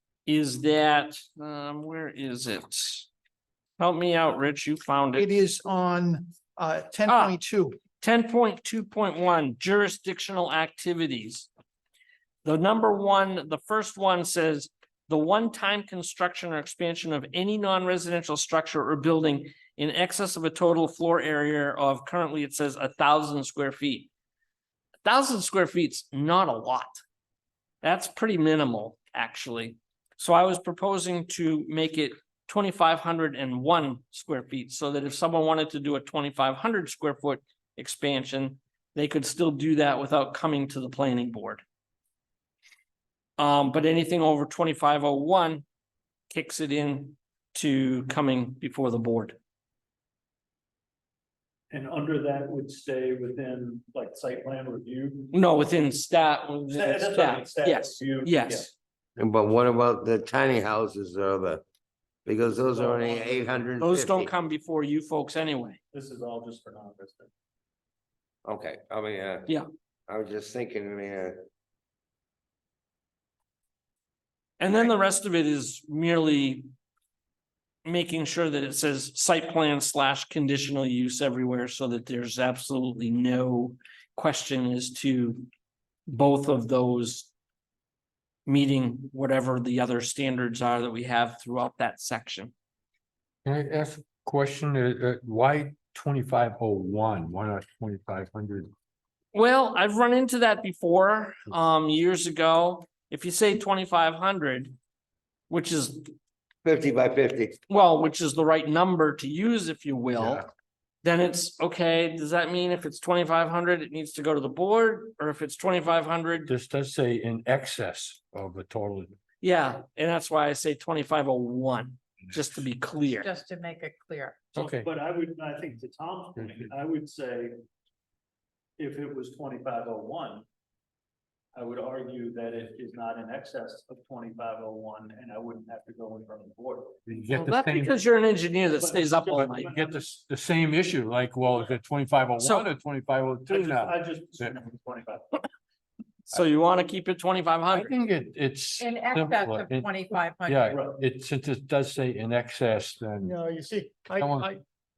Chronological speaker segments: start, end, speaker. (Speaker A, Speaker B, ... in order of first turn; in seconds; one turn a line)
Speaker A: 0.2-3.1
Speaker A: 3.8-5.4
Speaker B: 5.2-7.8
Speaker A: 7.1-7.4
Speaker A: 8.0-11.5
Speaker A: 12.4-24.1
Speaker A: 25.0-27.0
Speaker A: 27.8-41.6
Speaker A: 43.4-45.6
Speaker A: 46.3-49.4
Speaker C: 51.7-55.3
Speaker A: 55.3-58.7
Speaker C: 56.7-58.7
Speaker D: 59.2-61.6
Speaker D: 62.2-64.3
Speaker C: 62.7-63.6
Speaker A: 63.8-65.8
Speaker C: 65.9-67.3
Speaker D: 68.4-69.5
Speaker D: 70.1-71.4
Speaker A: 74.6-76.6
Speaker A: 77.8-85.5
Speaker A: 86.1-87.3
Speaker A: 88.5-92.5
Speaker E: 93.4-98.7
Speaker A: 99.3-104.8
Speaker A: 105.5-106.1
Speaker D: 106.6-107.6
Speaker A: 107.7-110.5
Speaker E: 110.2-110.4
Speaker A: 111.0-116.5
Speaker E: 116.5-119.2
Speaker A: 119.4-123.3
Speaker F: 123.2-124.4
Speaker E: 124.5-124.9
Speaker C: 124.5-127.5
Speaker E: 126.4-126.6
Speaker C: 128.8-130.4
Speaker C: 131.5-137.0
Speaker E: 137.1-138.0
Speaker A: 137.3-139.7
Speaker C: 138.8-140.0
Speaker E: 139.4-144.5
Speaker A: 142.4-142.7
Speaker C: 143.5-145.4
Speaker A: 146.3-147.9
Speaker E: 147.7-153.3
Speaker F: 148.8-150.7
Speaker C: 150.7-151.0
Speaker B: 153.2-154.6
Speaker E: 154.1-154.5